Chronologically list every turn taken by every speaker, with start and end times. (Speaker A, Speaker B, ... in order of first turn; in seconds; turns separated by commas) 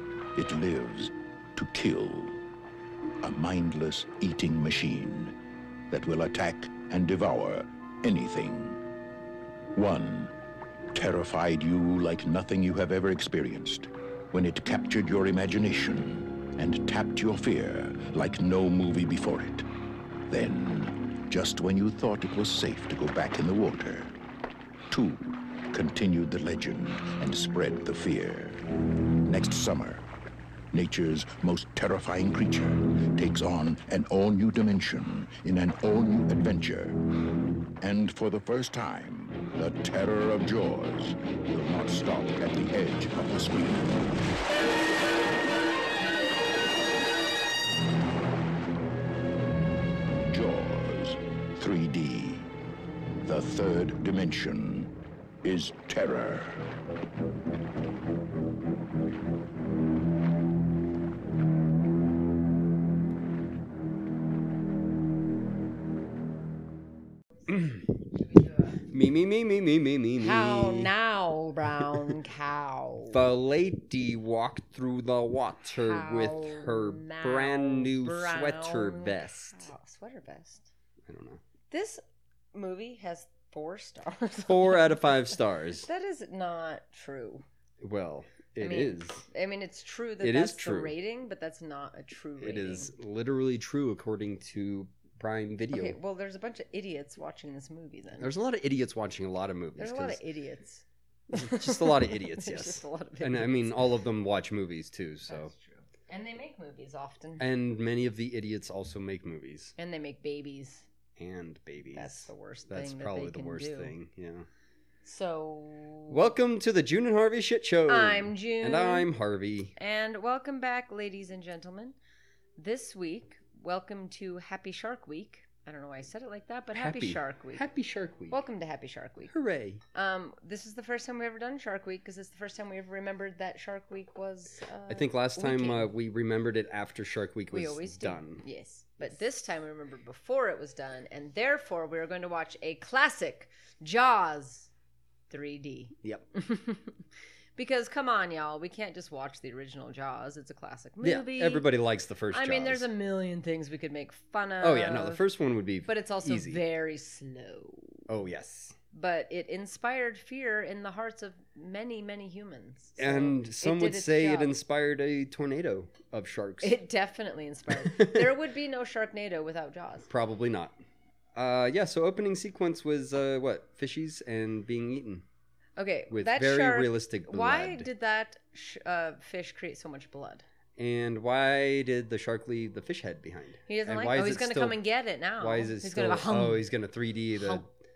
Speaker A: 0.3-2.4, Speaker A: 3.2-5.3, Speaker A: 5.9-8.8, Speaker A: 9.7-10.3, Speaker A: 10.9-19.7, Speaker A: 20.3-24.1, Speaker A: 24.9-28.6, Speaker A: 29.2-30.1, Speaker A: 30.7-37.0, Speaker A: 37.8-44.3, Speaker A: 50.1-52.5, Speaker A: 53.2-54.9, Speaker A: 55.4-56.6, Speaker B: 67.5-67.9, Speaker C: 68.4-68.8, Speaker B: 68.9-70.9, Speaker C: 70.2-73.2, Speaker B: 71.8-72.1, Speaker B: 73.1-79.7, Speaker C: 75.8-80.7, Speaker B: 81.1-81.4, Speaker C: 81.7-82.0, Speaker C: 82.5-87.5, Speaker B: 84.5-85.9, Speaker B: 87.8-89.2, Speaker C: 88.6-92.9, Speaker B: 90.2-90.9, Speaker B: 92.4-96.0, Speaker C: 95.7-98.3, Speaker B: 98.2-100.2, Speaker C: 99.8-103.9, Speaker B: 101.3-105.5, Speaker C: 105.3-107.5, Speaker B: 107.4-109.8, Speaker C: 109.8-110.9, Speaker B: 111.2-114.5, Speaker C: 111.9-113.9, Speaker C: 115.0-116.3, Speaker B: 116.1-119.8, Speaker C: 117.9-119.1, Speaker C: 119.8-122.0, Speaker C: 122.6-127.6, Speaker B: 126.8-128.4, Speaker C: 128.3-129.3, Speaker B: 129.3-129.8, Speaker C: 129.9-135.9, Speaker B: 134.9-138.4, Speaker C: 137.5-144.7, Speaker C: 145.3-147.0, Speaker C: 147.6-151.7, Speaker B: 151.0-152.9, Speaker C: 152.3-155.2, Speaker B: 154.6-156.6, Speaker C: 155.9-158.1, Speaker B: 158.1-158.8, Speaker C: 158.9-164.5, Speaker B: 163.0-166.8, Speaker C: 166.6-170.1, Speaker B: 167.7-168.3, Speaker B: 170.1-170.8, Speaker B: 171.4-175.2, Speaker C: 175.8-180.4, Speaker B: 176.1-177.9, Speaker B: 180.8-184.8, Speaker C: 183.7-186.7, Speaker B: 185.4-187.7, Speaker C: 187.3-187.6